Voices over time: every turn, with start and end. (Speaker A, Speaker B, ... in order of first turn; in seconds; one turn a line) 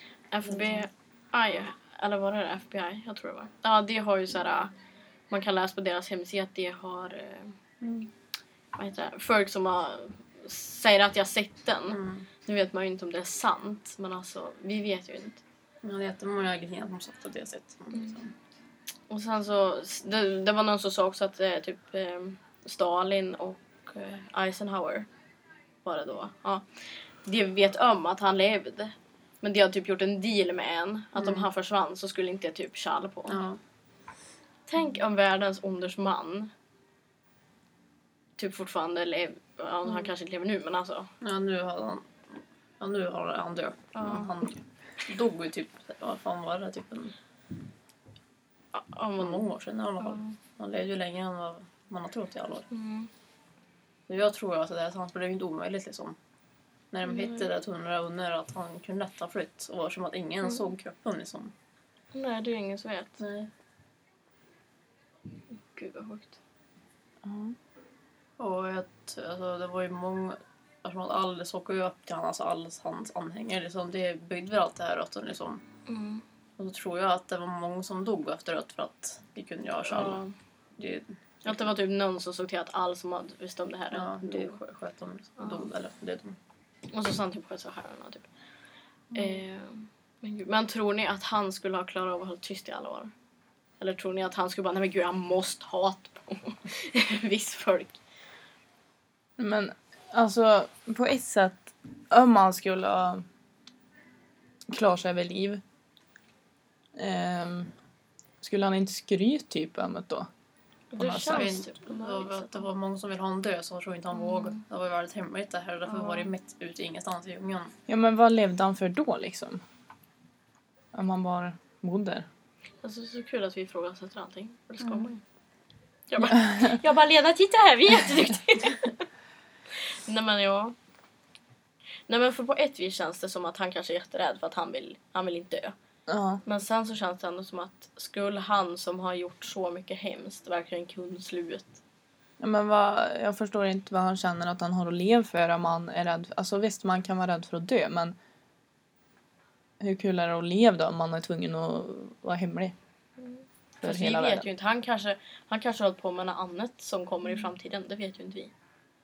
Speaker A: 0.3-4.7
Speaker B: 0.5-0.8
Speaker A: 5.3-7.5
Speaker B: 7.8-8.1
Speaker A: 8.8-15.4
Speaker B: 11.9-12.2
Speaker B: 15.8-18.3
Speaker A: 19.1-25.1
Speaker A: 25.8-26.6
Speaker A: 27.2-33.4
Speaker B: 31.1-31.5
Speaker B: 33.3-33.6
Speaker A: 34.7-36.5
Speaker A: 38.4-41.1
Speaker B: 41.2-42.1
Speaker B: 42.8-47.1
Speaker A: 43.9-44.3
Speaker A: 48.7-49.4
Speaker B: 49.2-52.7
Speaker A: 50.0-50.3
Speaker A: 52.7-53.1
Speaker B: 54.1-56.1
Speaker B: 56.9-61.5
Speaker A: 57.0-57.5
Speaker A: 62.1-63.2
Speaker B: 63.2-63.5
Speaker A: 65.5-66.4
Speaker C: 67.2-67.5
Speaker B: 68.4-75.6
Speaker A: 75.9-76.2
Speaker B: 76.6-80.2
Speaker A: 79.9-80.3
Speaker B: 80.8-81.7
Speaker A: 81.4-84.6
Speaker B: 83.9-86.4
Speaker A: 85.4-85.7
Speaker A: 86.9-88.3
Speaker B: 89.1-89.4
Speaker A: 89.1-93.1
Speaker A: 93.8-98.0
Speaker C: 99.4-103.2
Speaker C: 104.7-105.6
Speaker C: 107.0-107.7
Speaker C: 108.4-110.3
Speaker A: 110.9-112.7
Speaker C: 111.0-111.5
Speaker B: 111.3-117.7
Speaker A: 114.1-114.6
Speaker A: 115.9-116.3
Speaker C: 117.9-119.6
Speaker C: 120.9-122.2
Speaker A: 122.8-125.2
Speaker B: 124.8-125.1
Speaker A: 126.1-128.9
Speaker A: 130.1-130.7
Speaker A: 132.1-135.7
Speaker C: 136.1-136.4
Speaker A: 136.4-141.8
Speaker C: 142.4-148.2
Speaker C: 149.8-152.7
Speaker A: 153.2-158.5
Speaker C: 153.8-154.5